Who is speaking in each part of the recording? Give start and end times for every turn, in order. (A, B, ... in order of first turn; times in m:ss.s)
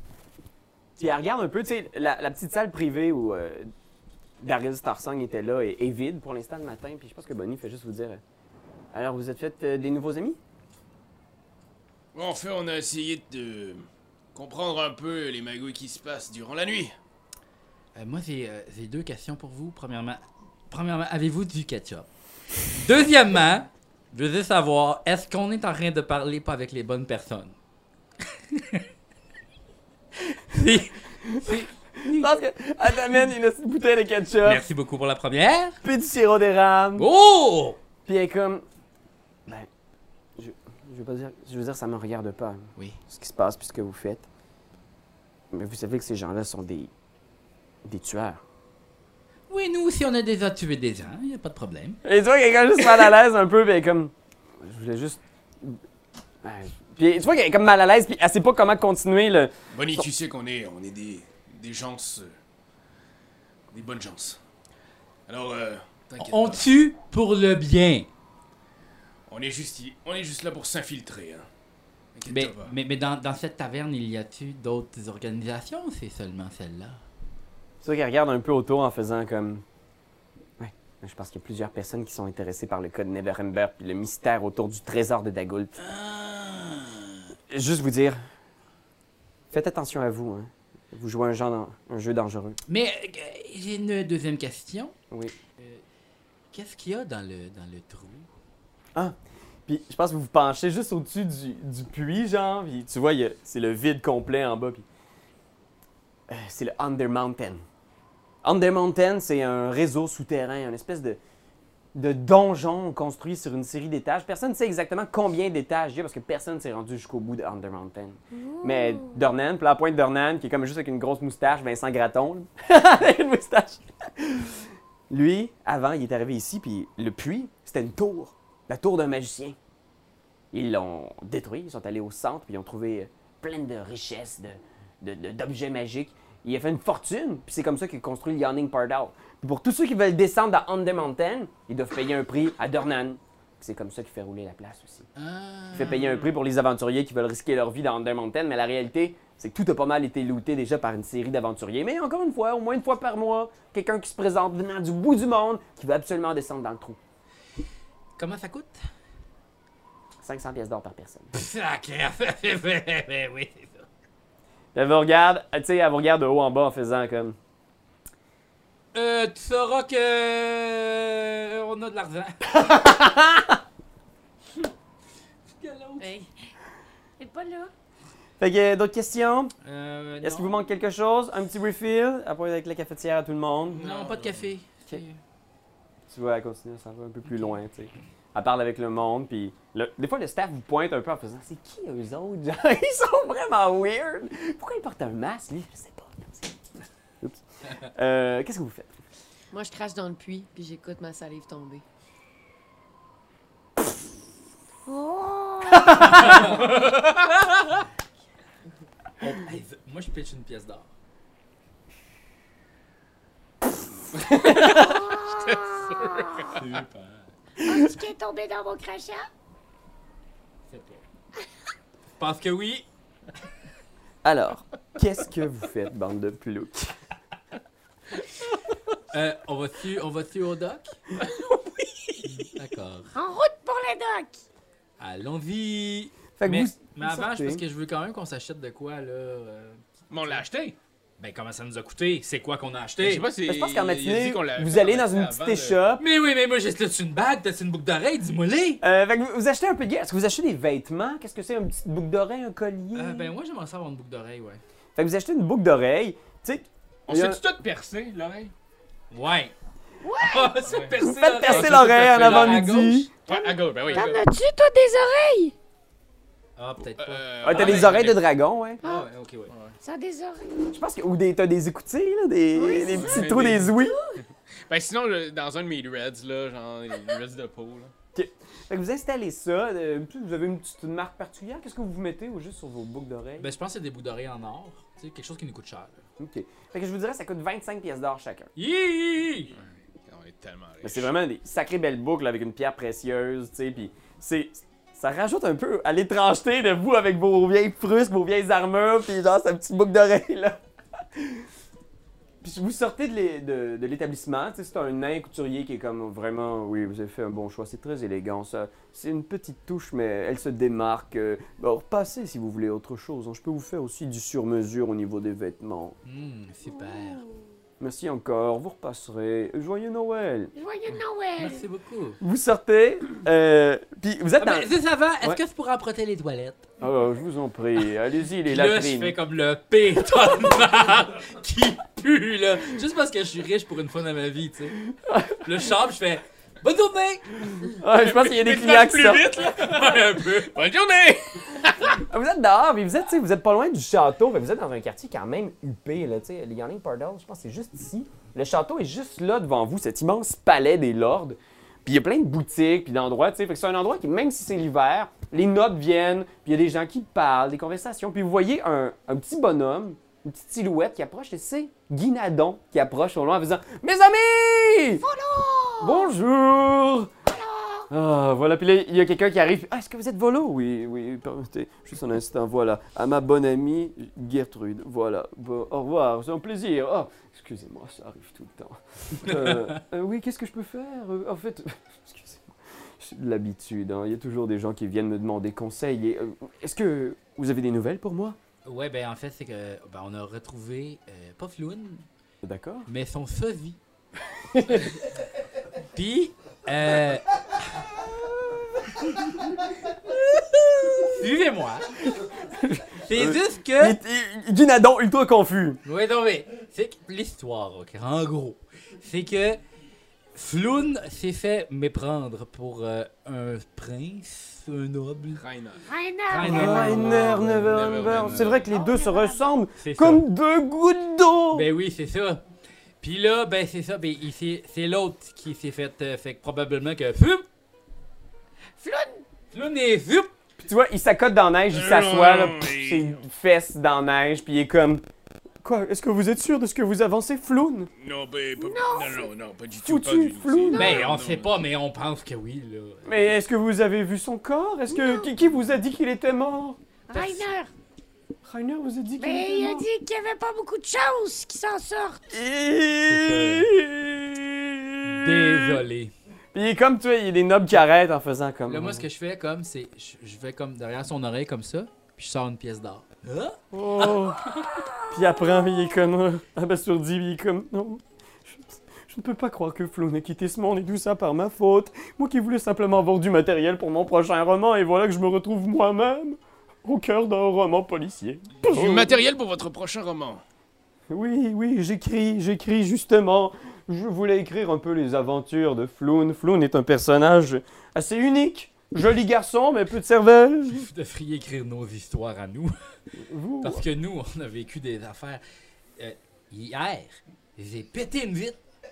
0:01.0-0:03.7 A
0:04.4-0:08.2 A
0:08.9-0:10.4 A
0:12.1-0:17.0 B
0:17.9-0:22.1 C
0:22.7-0:27.5 C
0:28.5-0:28.8 C
0:30.3-0:32.4 C
0:31.3-0:34.6 A
0:34.4-0:35.8 C
0:35.8-0:37.1 A
0:37.0-0:37.8 C
0:38.1-0:38.6 A
0:40.4-0:44.2 A
0:45.5-0:46.9 A
0:47.8-0:48.4 A
0:49.5-0:52.0 C
0:52.0-0:55.8 A
0:56.4-1:00.1 A
0:59.7-1:02.4 B
1:03.7-1:04.4 B
1:05.3-1:06.6 B
1:06.2-1:08.1 C
1:09.3-1:11.5 B
1:12.1-1:12.8 B
1:12.3-1:17.0 C
1:17.8-1:19.6 A
1:20.6-1:25.8 A
1:25.8-1:27.2 C
1:27.5-1:28.2 A
1:29.5-1:32.6 A
1:32.7-1:35.0 C
1:36.5-1:38.3 C
1:39.7-1:44.8 A
1:46.3-1:47.6 A
1:48.4-1:51.2 A
1:51.9-2:04.6 A
1:58.3-1:59.2 D
2:05.1-2:09.6 A
2:10.5-2:25.1 A
2:25.2-2:26.2 C
2:25.7-2:37.0 A
2:38.2-2:38.8 C
2:40.2-2:41.3 A
2:41.3-2:43.9 C
2:44.7-2:47.4 A
2:48.9-2:52.8 C
2:52.6-2:53.6 A
2:55.5-2:56.1 C
2:56.0-2:56.3 E
2:57.2-2:57.7 D
2:58.4-2:59.5 A
2:59.6-3:00.6 C
3:00.2-3:03.8 A
3:03.7-3:04.5 B
3:03.8-3:05.2 C
3:06.1-3:16.6 A
3:17.2-3:18.9 A
3:19.5-3:21.8 E
3:24.9-3:26.5 D
3:29.2-3:30.9 C
3:34.3-3:34.9 A
3:34.4-3:36.6 B
3:34.6-3:36.6 D
3:36.5-3:37.3 C
3:37.6-3:39.3 D
3:40.7-3:41.0 C
3:42.2-3:42.8 C
3:44.2-3:46.9 A
3:49.1-3:51.0 C
3:52.3-3:53.1 C
3:53.2-3:54.4 D
3:55.0-4:00.4 C
3:56.4-3:57.6 A
4:00.1-4:00.8 B
4:01.2-4:03.3 C
4:03.0-4:05.8 B
4:03.4-4:06.0 A
4:06.0-4:08.8 C
4:08.8-4:13.3 A
4:12.9-4:14.6 C
4:15.0-4:17.4 A
4:17.1-4:18.5 B
4:19.1-4:19.5 C
4:20.0-4:20.7 D
4:20.2-4:23.1 C
4:20.7-4:22.7 B
4:21.0-4:23.1 A
4:23.3-4:24.2 B
4:23.3-4:25.5 D
4:26.6-4:28.0 C
4:26.9-4:28.2 B
4:27.4-4:28.8 A
4:28.8-4:29.5 C
4:29.5-4:29.7 B
4:29.8-4:30.7 D
4:30.7-4:34.0 A
4:32.6-4:33.2 D
4:32.9-4:33.7 B
4:33.8-4:34.2 D
4:34.7-4:37.9 B
4:38.1-4:43.5 A
4:43.4-4:46.0 C
4:46.2-4:48.5 A
4:48.6-4:49.6 C
4:49.6-4:51.1 B
4:50.8-5:00.6 A
5:01.2-5:01.4 A
5:02.4-5:15.9 A
5:16.0-5:17.2 C
5:17.8-5:20.5 A
5:20.6-5:21.6 D
5:21.4-5:22.2 C
5:22.2-5:24.7 A
5:24.4-5:26.7 C
5:26.8-5:29.2 A
5:28.4-5:37.4 C
5:35.0-5:35.4 A
5:37.6-5:39.3 A
5:37.9-5:41.9 B
5:39.4-5:40.6 C
5:42.0-6:05.0 A
6:05.0-6:06.1 D
6:05.8-6:07.1 A
6:07.3-6:07.9 D
6:07.9-6:22.4 A
6:19.3-6:19.7 C
6:23.0-6:28.4 A
6:28.6-6:32.0 C
6:32.4-6:32.9 A
6:32.9-6:33.8 C
6:34.5-6:34.9 A
6:35.9-6:37.3 C
6:41.0-6:42.0 C
6:42.1-6:45.8 A
6:43.1-6:44.0 C
6:45.8-6:49.6 C
6:50.3-6:55.4 C
6:55.3-6:55.8 B
6:55.8-6:57.1 D
6:56.3-6:58.5 C
6:56.4-7:01.7 A
6:56.9-6:58.7 B
6:58.7-6:59.4 D
6:59.8-7:00.2 C
7:01.5-7:02.4 C
7:03.0-7:07.4 C
7:08.8-7:09.2 D
7:09.5-7:10.3 C
7:10.6-7:15.0 A
7:11.7-7:13.2 B
7:15.6-7:17.9 A
7:18.0-7:21.6 B
7:18.6-7:19.3 D
7:19.8-7:20.9 A
7:20.7-7:21.0 D
7:20.7-7:23.3 C
7:23.0-7:26.8 A
7:24.9-7:25.3 D
7:27.1-7:27.7 D
7:27.1-7:27.4 C
7:28.4-7:29.9 A
7:29.2-7:32.4 D
7:32.3-7:35.8 A
7:33.1-7:33.7 C
7:35.0-7:36.1 C
7:36.5-7:39.1 A
7:38.7-7:44.1 C
7:43.7-7:59.2 A
7:44.6-7:45.7 D
7:58.6-8:00.4 B
8:01.1-8:10.9 A
8:10.7-8:12.7 C
8:13.2-8:13.8 A
8:13.6-8:15.4 C
8:16.0-8:18.6 C